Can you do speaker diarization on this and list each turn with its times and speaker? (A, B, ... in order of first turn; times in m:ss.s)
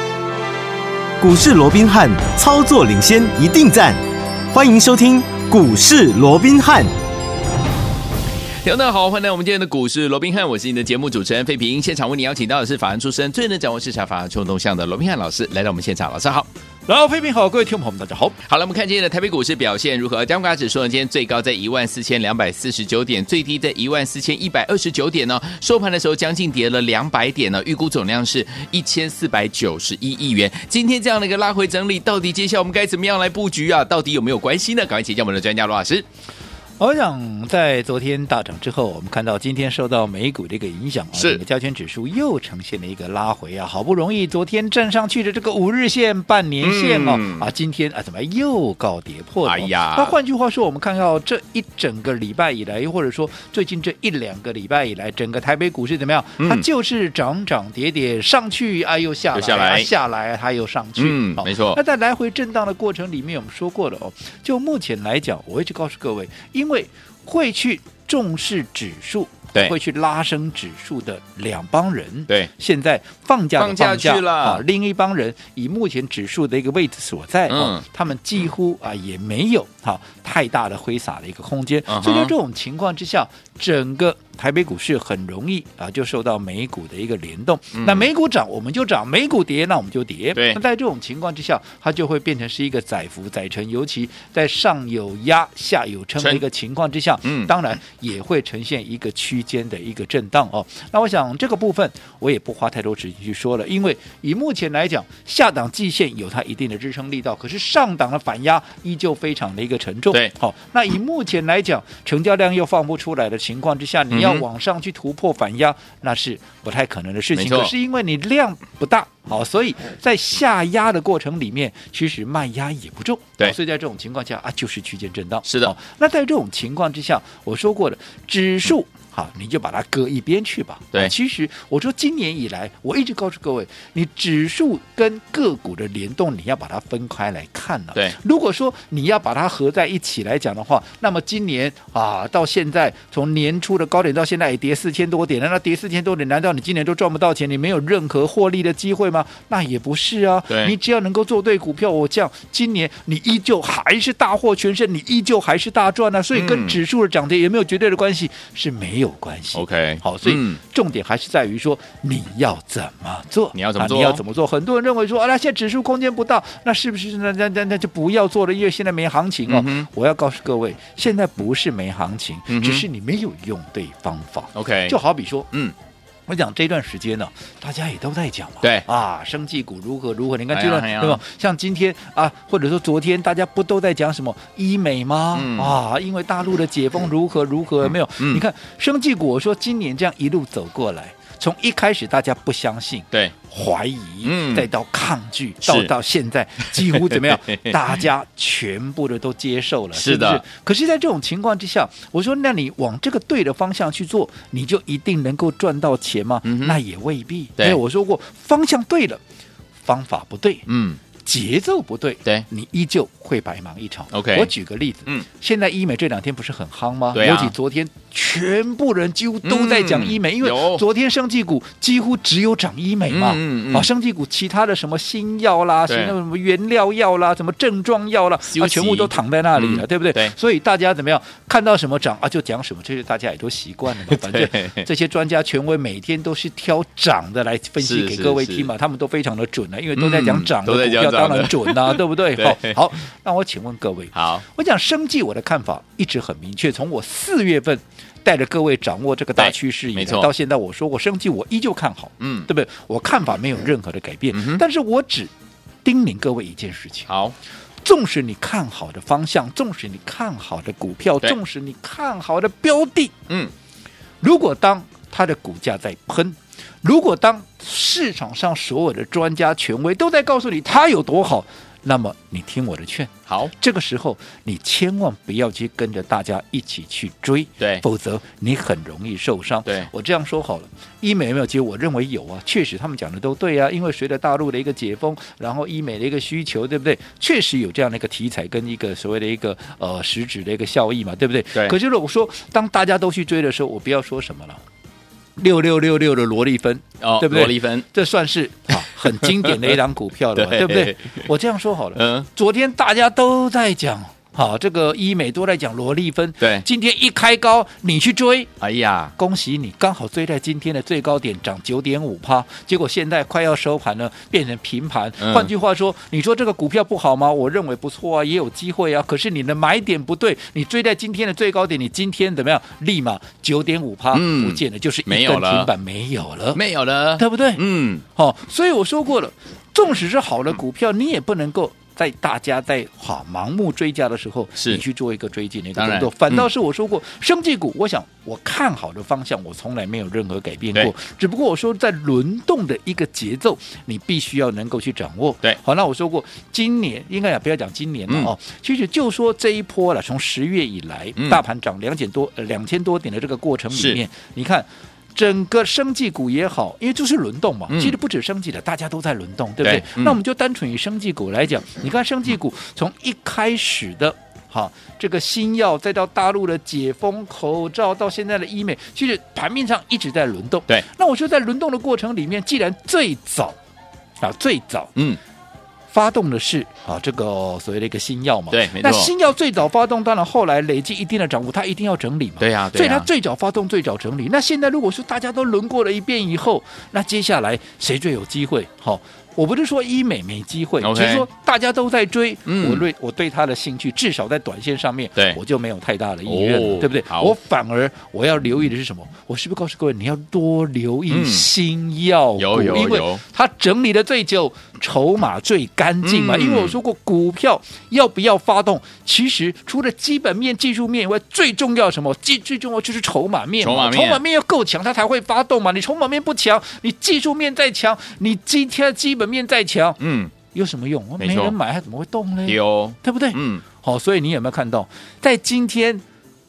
0:01.2-0:06.9 A
0:08.6-0:16.5 B
0:16.9-0:18.4 C
0:18.4-0:36.0 B
0:36.8-2:55.5 C
0:41.1-0:41.4 B
0:46.6-0:47.5 B
0:49.4-0:50.1 B
0:56.4-0:56.6 B
0:59.3-0:59.9 B
1:01.0-1:01.8 B
1:13.6-1:14.6 B
1:17.5-1:17.8 B
1:21.9-1:22.3 B
1:27.7-1:28.0 B
1:30.3-1:30.6 B
1:36.2-1:36.4 B
1:37.2-1:37.5 B
1:54.1-1:54.4 B
1:57.3-1:57.7 B
2:05.4-2:05.7 B
2:30.5-2:30.7 B
2:36.3-2:36.8 B
2:39.5-2:40.6 B
2:43.5-2:44.2 B
2:49.5-2:49.9 B
2:52.5-2:52.8 B
2:54.5-2:55.0 B
2:56.3-3:29.2 C
3:00.5-3:01.2 B
3:05.3-3:05.8 B
3:07.8-3:08.4 B
3:14.2-3:14.7 B
3:15.6-3:15.9 B
3:16.7-3:17.8 B
3:19.9-3:20.4 B
3:26.4-3:26.8 B
3:29.8-3:30.6 C
3:30.7-3:31.0 B
3:31.2-4:15.3 C
3:34.1-3:34.5 B
3:37.1-3:37.5 B
3:39.4-3:40.8 B
3:43.1-3:43.9 B
3:45.9-3:46.1 B
3:48.5-3:50.3 B
3:54.0-3:54.8 B
3:57.8-3:58.7 B
4:00.0-4:02.8 B
4:04.1-4:04.4 B
4:09.4-4:10.3 B
4:12.2-4:12.5 B
4:14.3-4:14.6 B
4:15.8-4:17.1 C
4:17.1-4:17.3 B
4:17.8-4:23.2 C
4:24.2-4:54.6 C
4:55.4-5:08.5 C
4:57.0-4:57.8 B
4:58.9-4:59.8 B
5:00.3-5:01.3 B
5:01.9-5:02.3 B
5:06.4-5:06.6 B
5:08.6-5:09.1 B
5:09.2-5:26.6 C
5:15.2-5:15.5 B
5:24.1-5:25.7 B
5:26.5-5:28.0 B
5:27.2-5:27.6 C
5:28.1-6:13.6 C
5:34.6-5:34.8 B
5:35.8-5:36.5 B
5:53.7-5:54.0 B
5:57.7-5:58.0 B
5:59.6-6:00.2 B
6:14.2-6:14.9 C
6:15.9-7:06.0 C
6:18.5-6:19.1 B
6:22.4-6:23.1 B
6:30.8-6:31.3 B
6:32.4-6:32.8 B
6:36.2-6:37.3 B
6:41.1-6:41.5 B
6:42.4-6:43.2 B
6:46.0-6:46.8 B
6:53.6-6:54.2 B
7:00.0-7:00.3 B
7:01.2-7:01.6 B
7:02.4-7:03.6 B